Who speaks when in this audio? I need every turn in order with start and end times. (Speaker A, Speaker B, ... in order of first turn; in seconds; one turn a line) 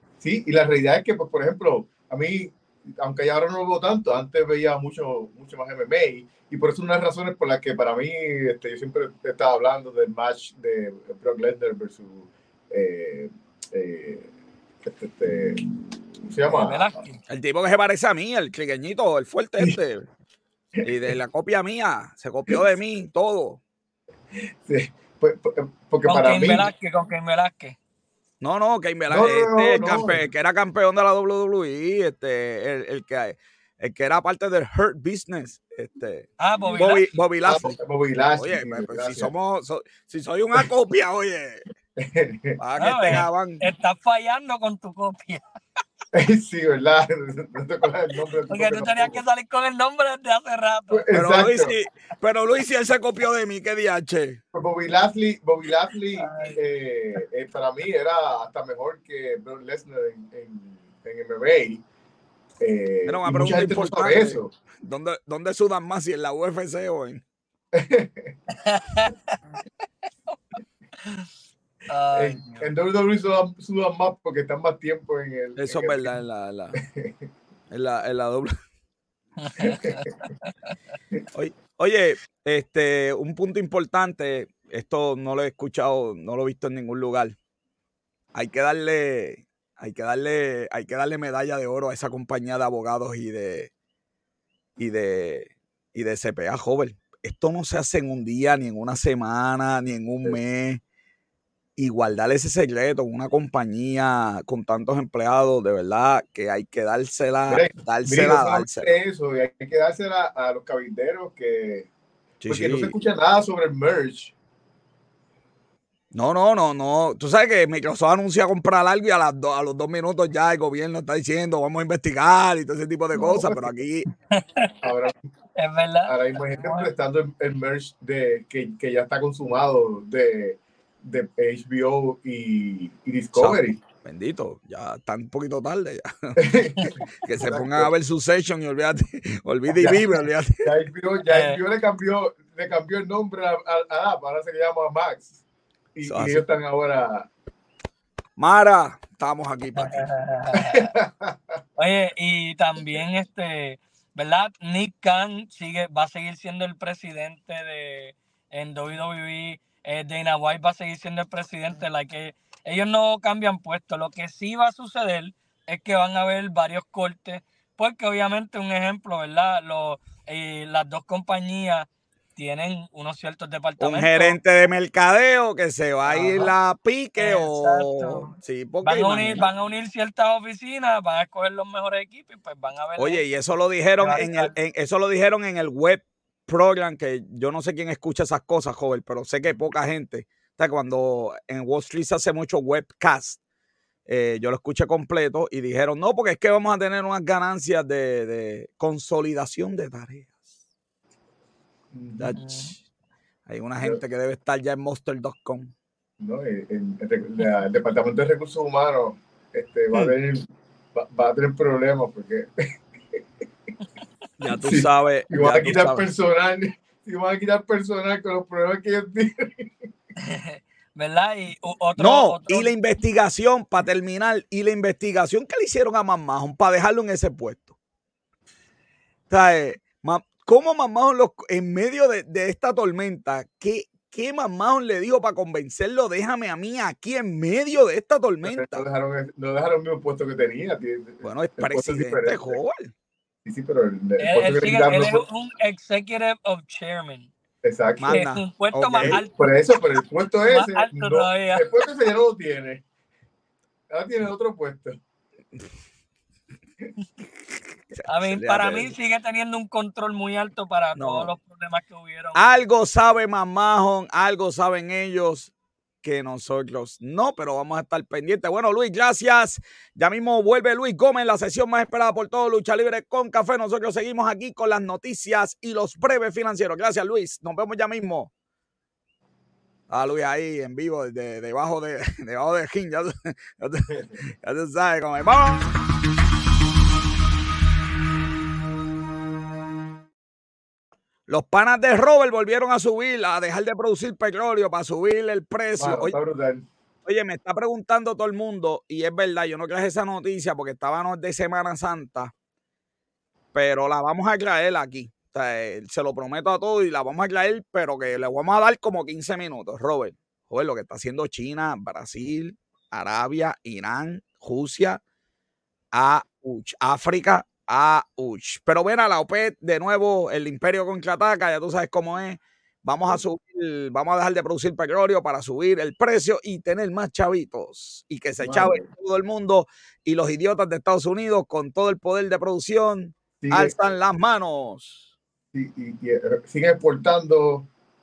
Speaker A: 0.2-14.3
Speaker A: 14.8-15.6
Speaker A: 16.2-16.9
Speaker B: 16.5-17.2
Speaker C: 17.3-20.1
Speaker C: 20.8-23.6
Speaker A: 24.4-26.7
Speaker B: 26.0-27.8
Speaker C: 28.4-37.8
Speaker A: 29.1-30.2
Speaker B: 36.4-37.1
Speaker A: 37.4-39.3
Speaker C: 38.4-41.6
Speaker A: 42.0-42.6
Speaker C: 42.6-43.6
Speaker B: 42.8-45.4
Speaker A: 46.1-49.2
Speaker B: 48.5-51.1
Speaker A: 50.9-51.7
Speaker C: 51.1-54.4
Speaker A: 54.5-61.8
Speaker B: 56.1-56.6
Speaker A: 62.6-64.5
Speaker C: 63.0-67.2
Speaker A: 67.7-68.4
Speaker B: 68.5-69.4
Speaker B: 71.9-72.7
Speaker A: 72.1-76.1
Speaker C: 75.6-76.8
Speaker A: 76.8-77.2
Speaker C: 77.7-78.5
Speaker B: 79.4-80.7
Speaker A: 79.6-80.0
Speaker C: 81.3-87.3
Speaker C: 88.3-93.7
Speaker C: 94.8-100.8
Speaker C: 101.8-108.9
Speaker A: 107.5-111.9
Speaker C: 112.4-112.9
Speaker A: 112.5-114.3
Speaker C: 116.1-124.1
Speaker A: 123.1-123.7
Speaker B: 124.3-124.9
Speaker A: 124.8-125.2
Speaker B: 125.6-126.9
Speaker A: 126.0-133.8
Speaker C: 133.3-136.4
Speaker A: 136.4-137.9
Speaker C: 137.2-140.7
Speaker A: 139.7-140.0
Speaker A: 140.6-145.4
Speaker B: 141.3-141.6
Speaker A: 145.9-147.3
Speaker C: 146.0-146.4
Speaker C: 148.4-150.1
Speaker B: 149.8-150.9
Speaker A: 150.5-151.6
Speaker B: 151.8-174.4
Speaker C: 173.8-179.5
Speaker B: 176.1-176.5
Speaker B: 177.2-178.3
Speaker B: 178.8-183.2
Speaker C: 183.0-193.4
Speaker B: 184.0-184.5
Speaker C: 194.1-200.5
Speaker A: 201.9-202.3
Speaker C: 202.2-202.8
Speaker B: 202.4-202.7
Speaker C: 203.4-205.7
Speaker A: 206.2-213.2
Speaker C: 214.4-216.1
Speaker A: 214.6-219.9
Speaker B: 220.2-222.7
Speaker C: 222.0-227.8
Speaker C: 229.3-238.8
Speaker A: 238.4-242.6
Speaker C: 241.2-242.9
Speaker A: 243.4-245.2
Speaker B: 244.2-247.3
Speaker A: 247.6-248.2
Speaker C: 248.0-249.2
Speaker B: 248.1-249.4
Speaker A: 249.0-252.8
Speaker B: 250.4-251.7
Speaker A: 253.9-255.0
Speaker C: 257.9-258.9
Speaker B: 258.1-262.5
Speaker C: 260.9-261.3
Speaker C: 262.4-278.3
Speaker C: 279.9-285.7
Speaker A: 283.9-284.2
Speaker C: 291.3-296.1
Speaker A: 295.8-296.6
Speaker C: 297.1-302.3
Speaker C: 303.5-315.0
Speaker C: 315.9-335.1
Speaker A: 328.4-328.8
Speaker A: 333.4-333.8
Speaker A: 335.5-337.7